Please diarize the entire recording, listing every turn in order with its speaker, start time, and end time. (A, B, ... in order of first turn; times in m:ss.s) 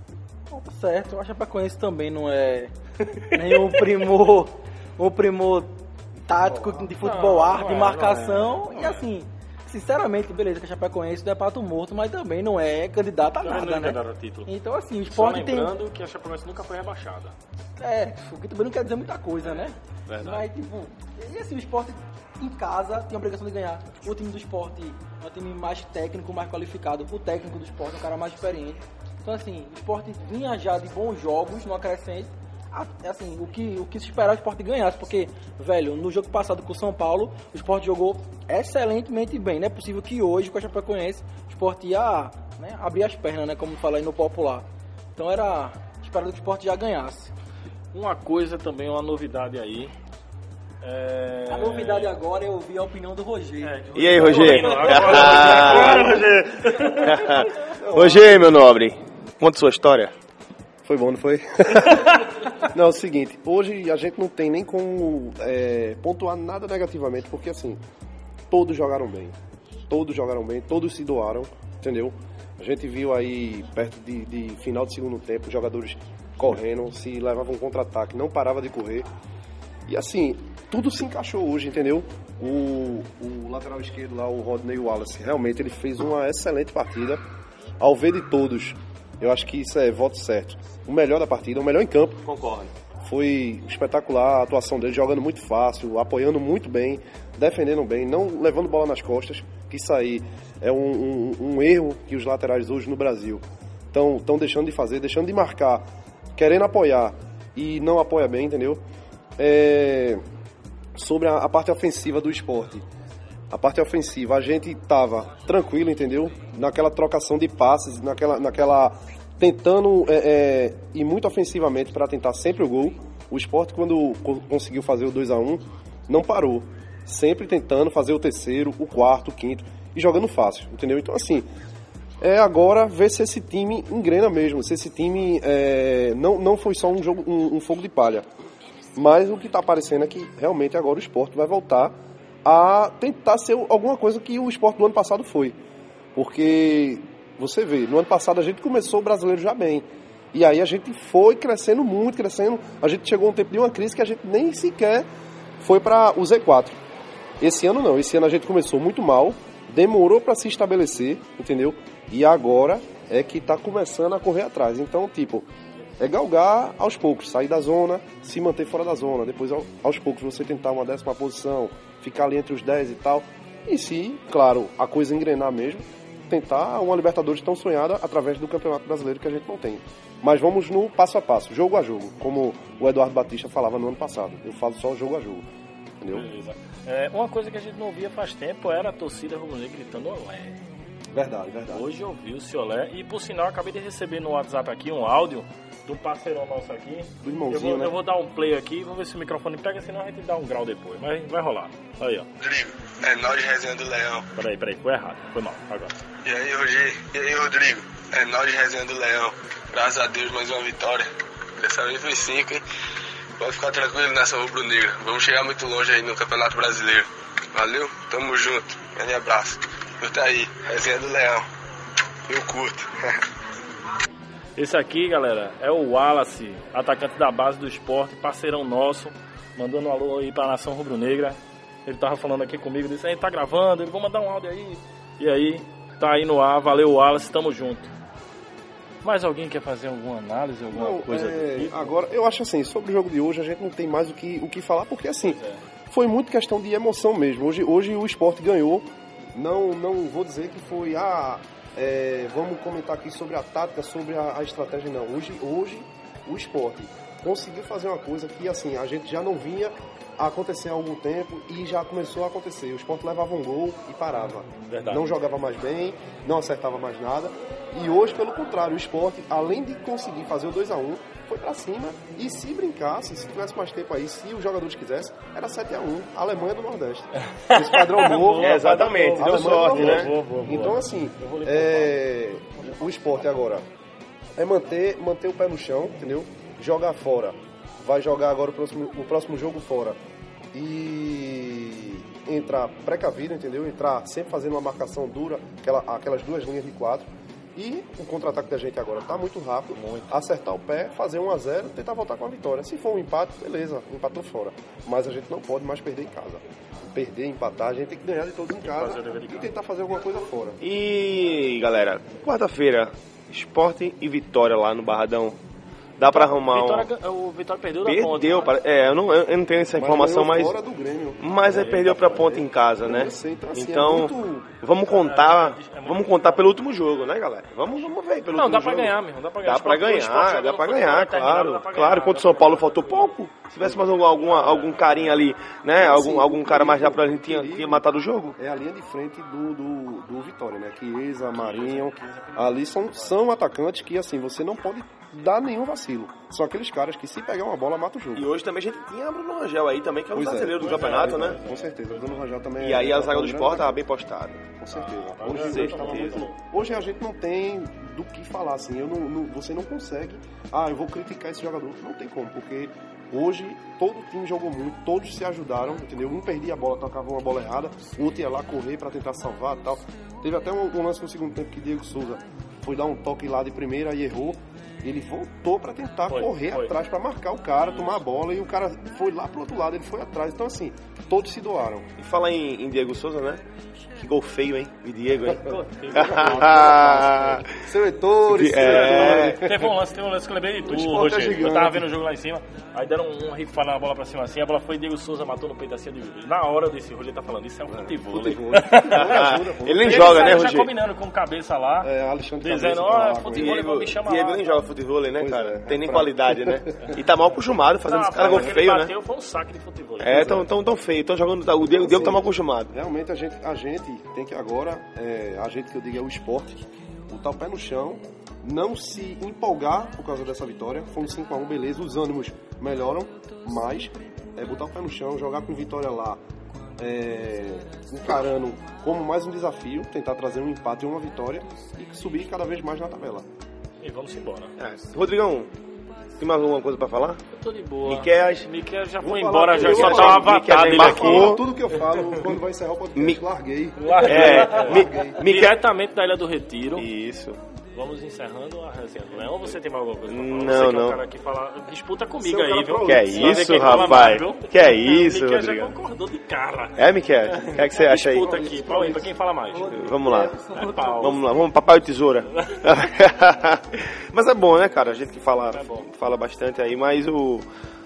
0:00.5-0:05.7 A
0:06.2-0:15.7 A
0:06.6-0:09.1 B
0:13.4-0:14.5 B
0:15.1-0:17.3 B
0:17.8-0:47.3 A
0:20.1-0:20.5 B
0:47.9-0:49.9 B
0:50.8-0:52.1 B
0:51.5-0:53.7 A
0:53.6-0:57.5 B
0:53.9-0:56.1 C
0:54.3-0:56.3 A
0:57.1-1:00.1 C
0:57.7-0:58.5 D
1:00.8-1:07.8 D
1:08.5-1:09.3 D
1:09.9-1:19.1 D
1:19.9-1:27.2 D
1:27.8-1:32.2 D
1:32.2-1:32.7 C
1:33.0-1:45.8 D
1:46.4-1:48.8 D
1:49.4-1:50.2 D
1:51.0-1:52.8 D
1:53.5-2:11.5 D
2:12.2-2:18.2 D
2:19.0-2:25.6 D
2:26.1-2:35.1 D
2:35.6-2:36.8 D
2:37.4-2:45.5 D
2:46.0-3:05.4 D
3:06.0-3:06.3 D
3:06.1-3:10.6 B
3:11.1-3:11.8 D
3:11.7-3:22.3 B
3:17.2-3:18.0 D
3:22.4-3:24.2 E
3:24.3-3:25.9 B
3:26.2-3:32.6 E
3:33.4-3:41.5 E
3:42.2-3:43.1 E
3:44.6-3:57.9 B
3:59.0-4:01.9 B
4:00.7-4:43.6 D
4:05.2-4:05.6 B
4:24.7-4:25.1 B
4:37.5-4:42.0 B
4:38.4-4:40.1 C
4:44.4-4:50.0 D
4:50.5-5:10.6 D
4:59.8-5:00.1 B
5:08.6-5:09.5 B
5:10.6-5:15.4 C
5:16.0-5:16.9 C
5:16.1-5:18.6 B
5:17.8-5:20.5 C
5:19.7-5:24.5 D
5:21.2-5:38.4 C
5:21.4-5:22.4 B
5:24.8-5:26.6 B
5:28.3-5:33.2 B
5:33.9-5:35.3 B
5:35.7-5:37.8 D
5:38.4-5:48.3 D
5:41.3-5:43.2 B
5:48.1-5:51.4 C
5:50.1-5:53.8 D
5:50.6-5:52.2 B
5:52.6-5:54.5 C
5:54.6-6:21.9 D
5:54.7-5:56.4 B
5:55.3-5:56.2 C
6:16.1-6:16.8 B
6:22.0-6:23.4 C
6:24.0-6:27.4 C
6:25.2-6:27.4 B
6:25.5-6:29.6 D
6:28.3-6:29.4 C
6:28.6-6:39.2 B
6:30.6-6:31.9 D
6:37.7-6:40.5 D
6:38.9-6:40.7 C
6:39.8-6:44.6 B
6:41.8-6:43.6 D
6:43.3-6:48.9 C
6:45.2-6:46.9 D
6:47.8-6:50.4 B
6:50.0-6:52.7 C
6:50.1-6:50.5 D
6:51.6-7:06.2 D
7:06.8-7:13.2 D
7:13.8-7:14.5 B
7:14.6-7:15.5 C
7:16.2-7:17.2 C
7:17.3-7:21.4 B
7:17.8-7:18.5 C
7:19.0-7:25.2 D
7:19.5-7:21.4 C
7:22.9-7:23.2 C
7:23.8-7:26.9 B
7:24.0-7:25.6 C
7:26.8-7:27.4 C
7:27.7-7:39.7 B
7:30.0-7:31.0 C
7:32.2-7:34.0 D
7:32.8-7:35.7 C
7:36.8-7:38.4 C
7:37.9-7:41.5 A
7:39.6-7:47.5 C
7:40.5-7:41.2 B
7:42.4-7:42.7 B
7:45.5-7:45.9 B